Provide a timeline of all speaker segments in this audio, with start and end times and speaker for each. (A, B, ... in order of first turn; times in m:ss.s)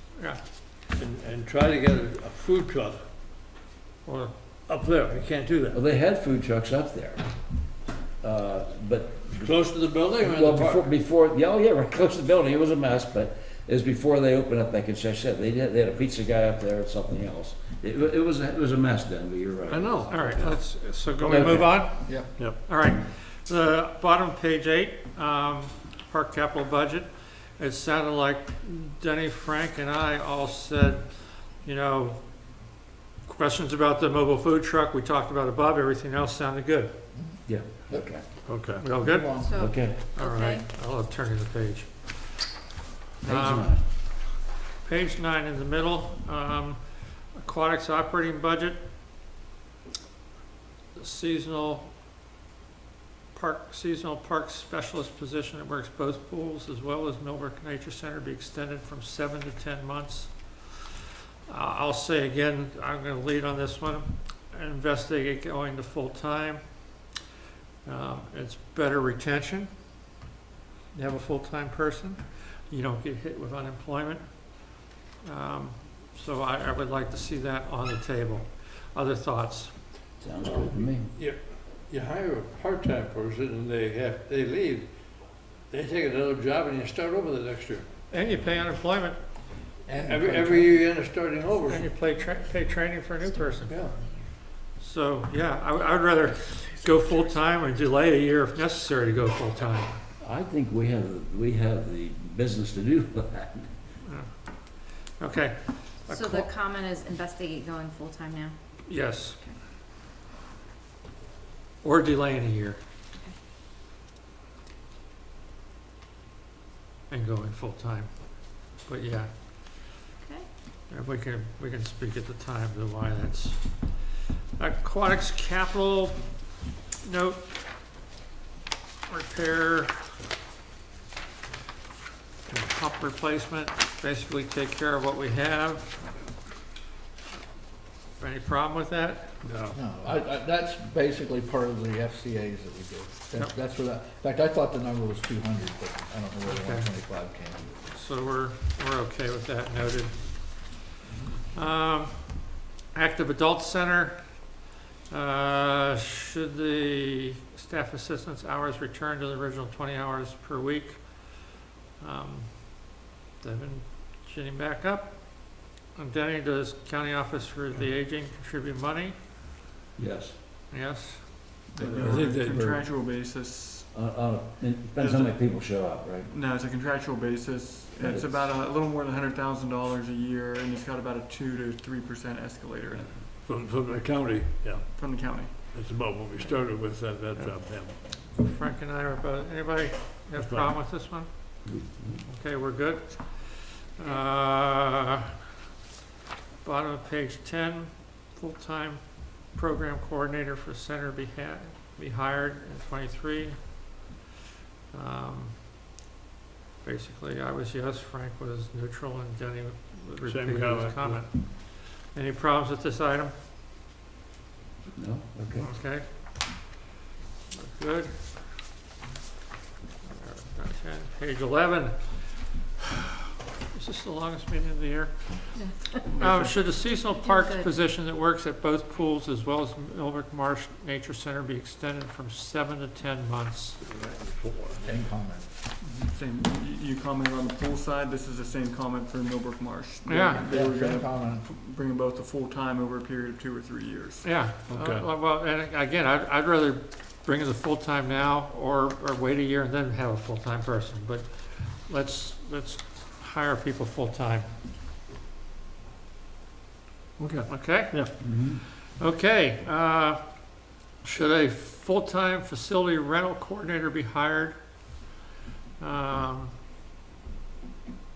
0:00.1-0:00.4 A
0:00.9-0:03.0 B
0:04.0-0:04.4 A
0:04.7-0:05.8 B
0:05.7-0:07.3 C
0:08.2-0:20.4 C
0:09.3-0:10.9 B
0:19.7-0:20.7 B
0:20.1-0:32.6 A
0:21.0-0:21.8 C
0:21.3-0:22.6 B
0:22.0-0:22.3 D
0:33.2-0:37.0 A
0:37.1-0:38.1 D
0:37.4-0:38.5 C
0:38.4-0:38.8 B
0:38.8-0:42.5 A
0:39.0-0:39.6 D
0:39.3-0:40.6 E
0:39.5-0:40.0 C
0:43.2-0:43.8 C
0:43.2-0:48.8 A
0:50.9-0:51.9 A
0:53.3-1:00.9 A
1:01.5-1:07.1 A
1:07.8-1:09.7 A
1:10.9-1:19.8 A
1:20.2-1:21.1 C
1:20.5-1:24.9 B
1:25.7-1:27.9 B
1:28.1-1:29.3 A
1:29.8-1:30.9 D
1:29.9-1:31.9 B
1:31.6-1:33.8 A
1:32.1-1:34.2 E
1:33.7-1:34.0 B
1:34.6-1:39.9 A
1:40.2-1:43.7 C
1:44.0-1:46.5 A
1:46.1-1:49.6 E
1:48.8-1:49.4 A
1:51.8-1:52.8 A
1:57.1-2:00.0 A
2:00.2-2:00.5 E
2:00.9-2:06.4 A
2:07.0-2:07.5 A
2:09.1-2:10.0 A
2:12.5-2:16.1 A
2:18.2-2:19.4 A
2:19.4-2:19.8 B
2:19.7-2:27.8 D
2:26.4-2:26.9 A
2:27.8-2:30.9 A
2:31.1-2:31.4 D
2:31.5-2:34.5 A
2:35.1-2:49.2 A
2:50.0-2:50.3 C
2:50.7-2:51.6 A
2:51.7-2:53.9 F
2:51.8-2:52.8 B
2:53.9-2:56.3 C
2:54.9-2:55.4 F
2:56.3-3:03.2 F
2:58.0-2:58.5 C
3:03.3-3:04.9 B
3:04.9-3:05.7 F
3:05.6-3:08.1 B
3:08.1-3:15.2 A
3:10.3-3:10.8 B
3:11.6-3:12.2 C
3:16.6-3:24.0 A
3:24.9-3:25.6 A
3:26.8-3:33.3 A
3:30.2-3:31.3 B
3:34.9-3:35.7 C
3:35.6-3:36.4 A
3:37.5-3:38.4 A
3:40.0-3:43.1 A
3:43.7-3:53.8 A
3:45.5-3:47.8 E
3:46.1-3:46.6 F
3:53.8-3:54.8 B
3:54.8-3:55.5 D
3:55.8-4:04.4 F
4:00.0-4:00.5 A
4:00.4-4:01.4 D
4:04.2-4:14.5 A
4:04.7-4:05.1 B
4:17.2-4:18.2 B
4:17.5-4:25.0 A
4:18.2-4:18.6 C
4:25.8-4:26.5 A